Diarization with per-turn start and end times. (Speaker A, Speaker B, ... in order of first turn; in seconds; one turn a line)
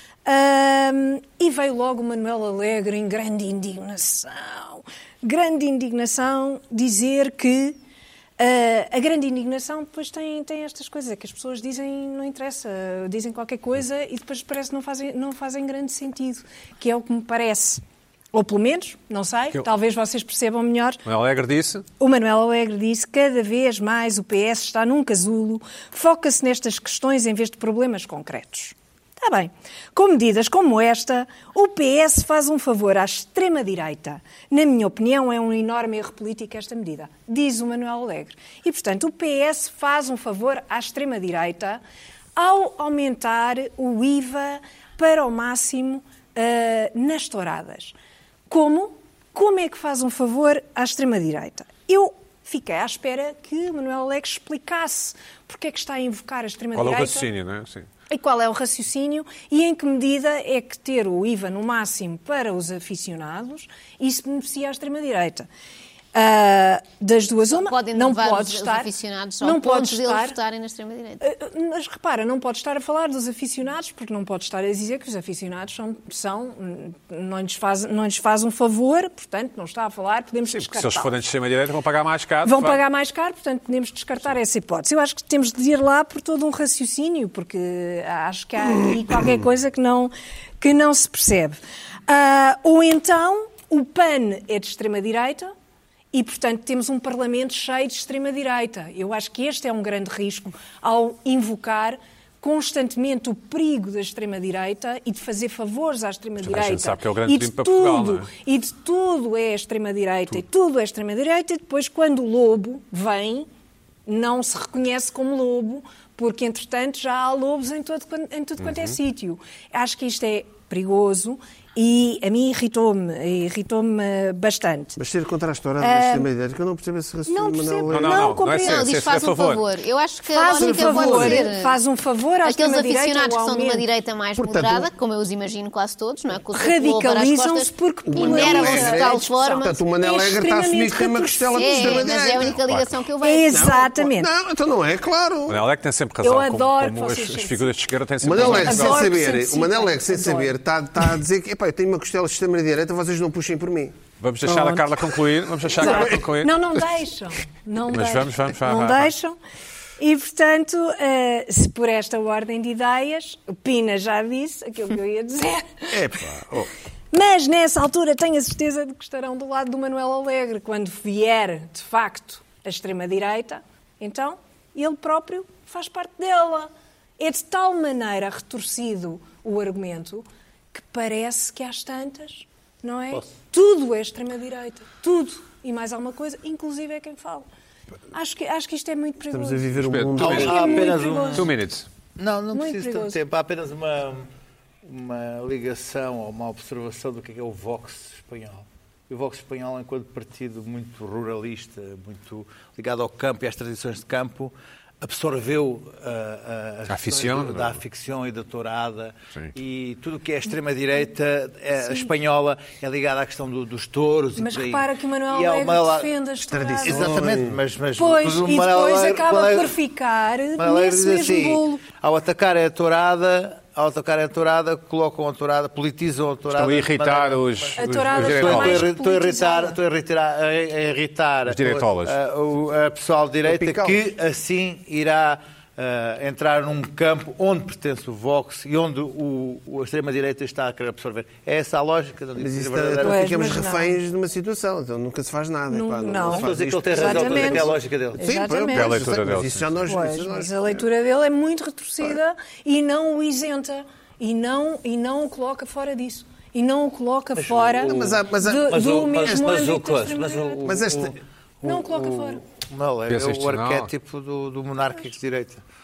Speaker A: 0.2-7.8
Speaker A: 8.4-17.8
Speaker A: 18.3-21.0
Speaker B: 21.0-21.9
Speaker A: 22.0-41.8
Speaker A: 42.4-47.9
Speaker A: 48.5-57.3
Speaker B: 56.7-57.9
Speaker A: 58.1-65.5
Speaker A: 66.1-68.9
Speaker C: 67.5-71.2
Speaker A: 69.4-70.4
Speaker A: 71.2-81.2
Speaker B: 80.5-82.8
Speaker A: 82.4-91.6
Speaker A: 92.1-95.5
Speaker A: 96.1-113.5
Speaker B: 106.4-108.3
Speaker A: 114.0-125.0
Speaker D: 125.0-128.4
Speaker A: 125.8-126.3
Speaker A: 127.3-129.2
Speaker B: 127.9-129.6
Speaker C: 128.6-131.8
Speaker A: 130.3-133.8
Speaker D: 130.5-131.5
Speaker C: 132.4-139.7
Speaker D: 134.3-134.9
Speaker A: 136.5-142.1
Speaker D: 138.1-142.9
Speaker C: 141.5-143.7
Speaker B: 142.6-142.9
Speaker A: 143.2-144.3
Speaker D: 143.5-145.6
Speaker B: 145.5-149.1
Speaker A: 146.2-147.7
Speaker D: 148.2-154.9
Speaker A: 148.3-150.5
Speaker B: 154.2-156.6
Speaker A: 155.8-159.4
Speaker D: 155.8-156.2
Speaker B: 157.9-159.1
Speaker A: 160.0-166.0
Speaker D: 165.9-166.7
Speaker A: 167.1-187.5
Speaker A: 188.1-191.5
Speaker D: 189.3-191.0
Speaker B: 189.8-190.6
Speaker E: 190.2-191.5
Speaker B: 191.3-191.9
Speaker E: 192.2-194.3
Speaker A: 192.5-193.2
Speaker E: 194.8-216.1
Speaker B: 206.9-207.8
Speaker A: 214.3-217.2
Speaker D: 216.4-217.6
Speaker E: 216.8-219.7
Speaker A: 217.9-221.8
Speaker E: 220.6-243.4
Speaker B: 226.5-228.9
Speaker A: 227.8-229.8
Speaker B: 231.5-232.1
Speaker D: 233.4-234.1
Speaker D: 242.4-250.9
Speaker A: 243.0-244.0
Speaker A: 245.7-249.0
Speaker E: 246.3-248.2
Speaker B: 248.7-249.8
Speaker A: 249.8-260.7
Speaker E: 257.4-265.6
Speaker D: 257.8-259.4
Speaker D: 260.6-261.1
Speaker A: 261.6-262.4
Speaker B: 263.1-263.9